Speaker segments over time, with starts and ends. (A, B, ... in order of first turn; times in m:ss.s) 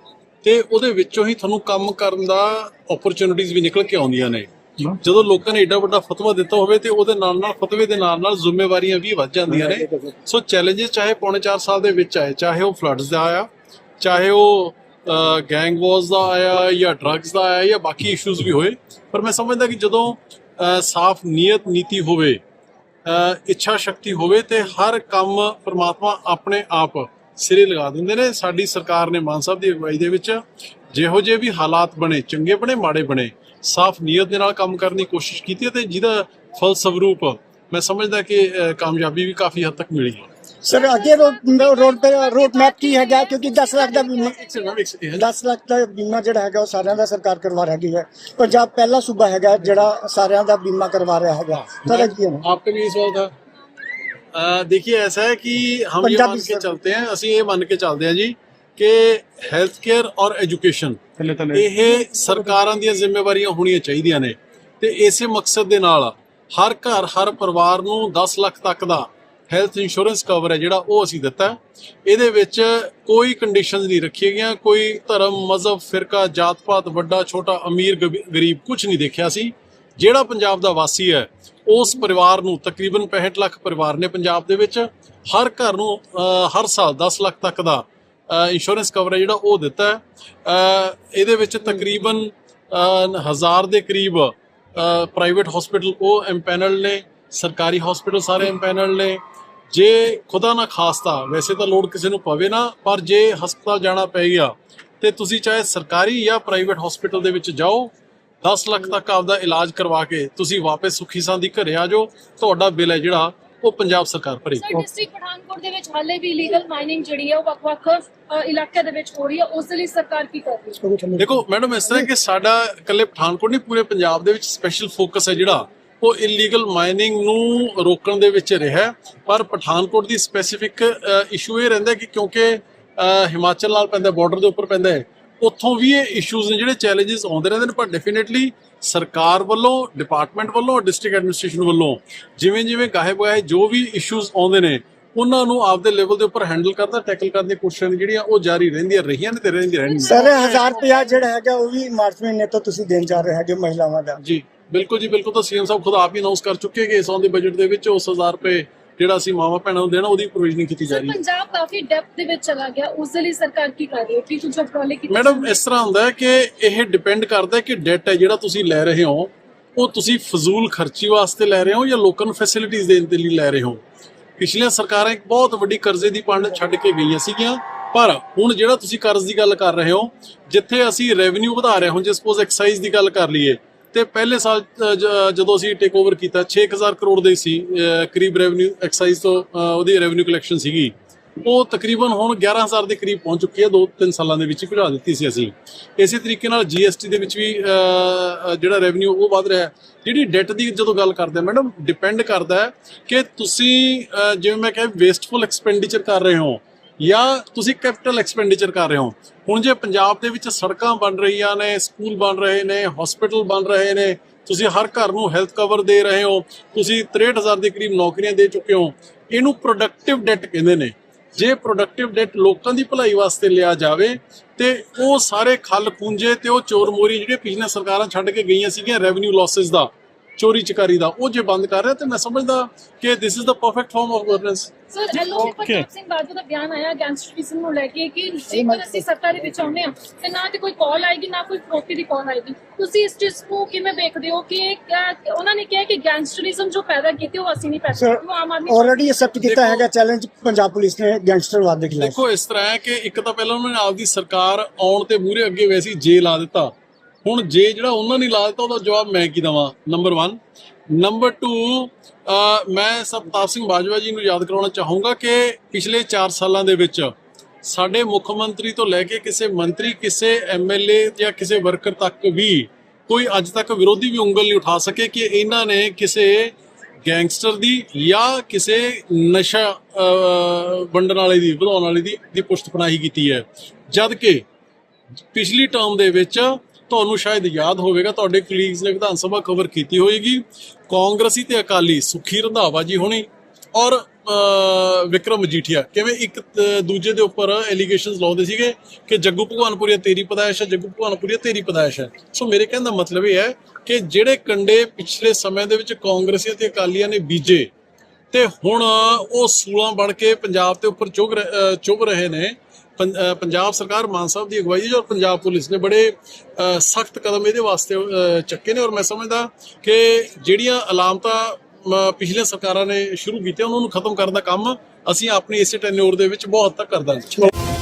0:00.4-0:13.5 A
0:14.0-0:22.4 A
0:23.0-0:40.3 A
0:40.6-0:44.4 B
0:40.9-0:44.8 C
0:44.2-0:45.3 A
0:45.2-0:52.4 B
0:51.8-0:53.3 A
0:54.3-1:54.8 A
0:56.0-0:56.7 B
1:54.6-2:00.8 C
2:00.8-2:02.1 B
2:01.2-2:30.7 A
2:29.8-2:31.2 C
2:30.1-2:34.2 B
2:34.2-2:41.2 A
2:40.9-2:45.6 C
2:45.1-2:53.8 A
2:54.4-3:55.8 A
3:54.9-4:09.2 C
3:58.5-3:59.5 B
4:07.9-4:12.2 B
4:09.4-4:09.8 A
4:12.0-4:16.7 A
4:17.2-4:20.4 A
4:20.9-4:44.4 A
4:45.3-5:07.7 A
5:08.3-5:27.5 A